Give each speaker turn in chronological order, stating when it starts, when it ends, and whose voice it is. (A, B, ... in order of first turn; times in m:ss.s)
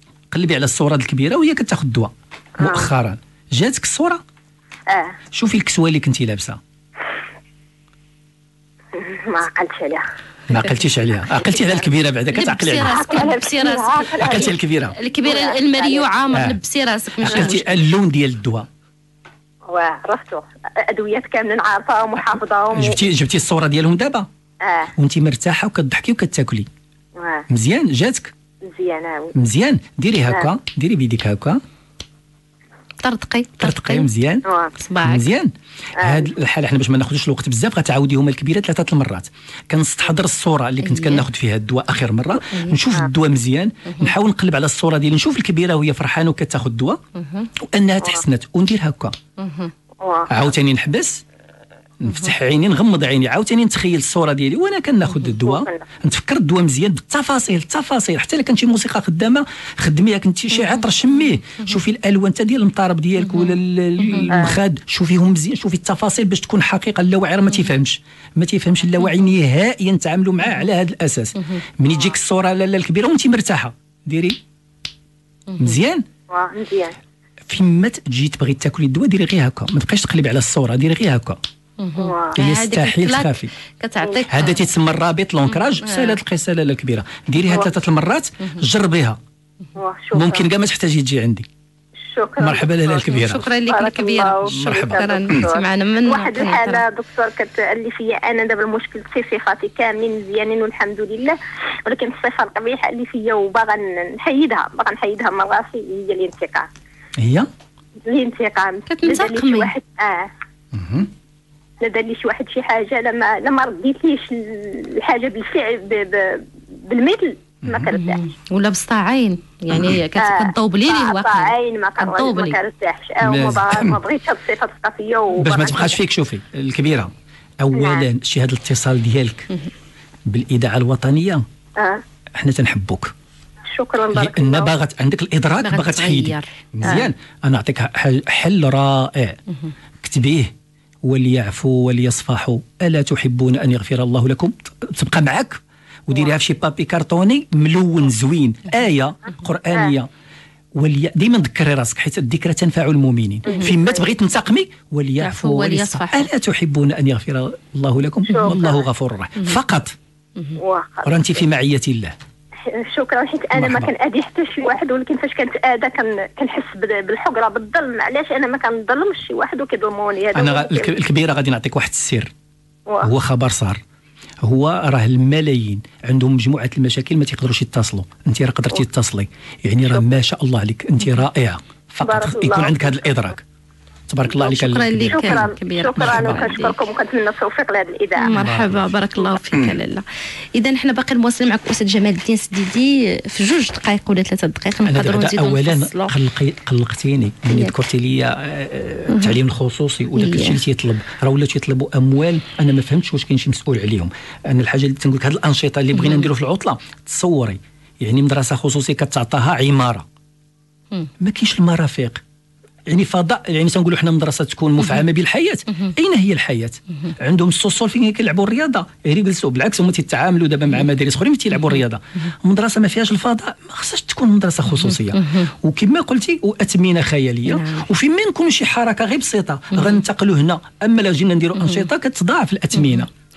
0:00.3-0:04.2 A
0:02.6-0:02.9 B
0:04.9-0:05.2 B
0:05.3-0:06.6 A
0:08.9-0:10.1 B
0:10.5-0:13.2 A
0:12.3-0:17.7 C
0:12.9-0:14.6 B
0:14.2-0:15.0 A
0:15.2-0:16.1 B
0:16.3-0:16.6 A
0:17.2-0:18.7 A
0:19.7-0:23.0 B
0:22.7-0:24.3 A
0:24.6-0:24.9 B
0:25.0-0:26.7 A
0:27.2-0:27.4 B
0:27.5-0:28.3 A
0:28.6-0:29.4 B
0:29.4-0:31.6 A
0:33.0-0:34.1 C
0:33.6-0:34.4 A
0:34.4-0:34.7 B
0:34.8-0:35.2 C
0:35.0-0:47.0 A
0:36.0-0:36.3 B
0:40.8-0:41.3 C
0:42.4-0:42.8 C
0:47.2-0:47.5 C
0:47.6-0:49.2 A
0:49.4-0:49.7 C
0:50.0-0:50.3 B
0:50.3-0:51.2 A
0:52.0-1:14.4 A
0:55.4-0:55.8 B
1:04.3-1:04.6 B
1:11.9-1:12.1 B
1:15.5-1:15.8 C
1:15.6-1:16.0 A
1:16.3-1:16.9 B
1:17.5-1:21.4 A
1:21.8-1:24.6 C
1:22.0-1:22.4 B
1:22.4-1:23.5 A
1:24.3-1:29.2 A
1:25.8-1:26.2 C
1:29.8-1:30.5 B
1:30.1-1:31.5 A
1:32.1-1:46.7 B
1:32.4-1:33.5 A
1:33.1-1:36.8 C
1:34.5-1:35.0 A
1:47.2-1:47.5 A
1:48.1-1:50.3 B
1:48.9-1:49.7 C
1:50.7-1:51.1 A
1:51.8-1:58.3 B
1:58.0-2:02.6 C
2:00.2-2:06.0 B
2:03.2-2:04.0 A
2:05.4-2:09.4 A
2:07.7-2:08.1 B
2:10.3-2:11.4 A
2:11.8-2:12.0 B
2:12.4-2:13.1 A
2:13.7-2:14.7 B
2:14.1-2:19.4 A
2:15.6-2:17.0 C
2:16.8-2:17.1 B
2:20.0-2:30.1 A
2:30.7-2:40.0 A
2:33.4-2:34.0 B
2:35.2-2:36.3 C
2:38.3-2:38.9 B
2:40.6-2:41.4 B
2:41.0-2:42.1 A
2:42.7-2:50.9 B
2:43.5-2:43.9 A
2:50.4-2:52.3 A
2:53.0-2:53.8 A
2:54.4-3:03.4 A
3:02.0-3:02.8 B
3:04.1-3:06.4 A
3:04.4-3:06.7 C
3:05.1-3:08.4 B
3:08.2-3:10.0 C
3:08.3-3:08.9 A
3:10.6-3:16.2 C
3:14.9-3:30.1 A
3:17.5-3:17.7 C
3:19.1-3:19.4 C
3:20.1-3:20.6 C
3:31.2-3:32.2 A
3:32.9-3:53.1 A
3:45.1-3:45.5 C
3:47.4-3:47.9 C
3:51.6-3:51.9 C
3:52.8-3:53.1 C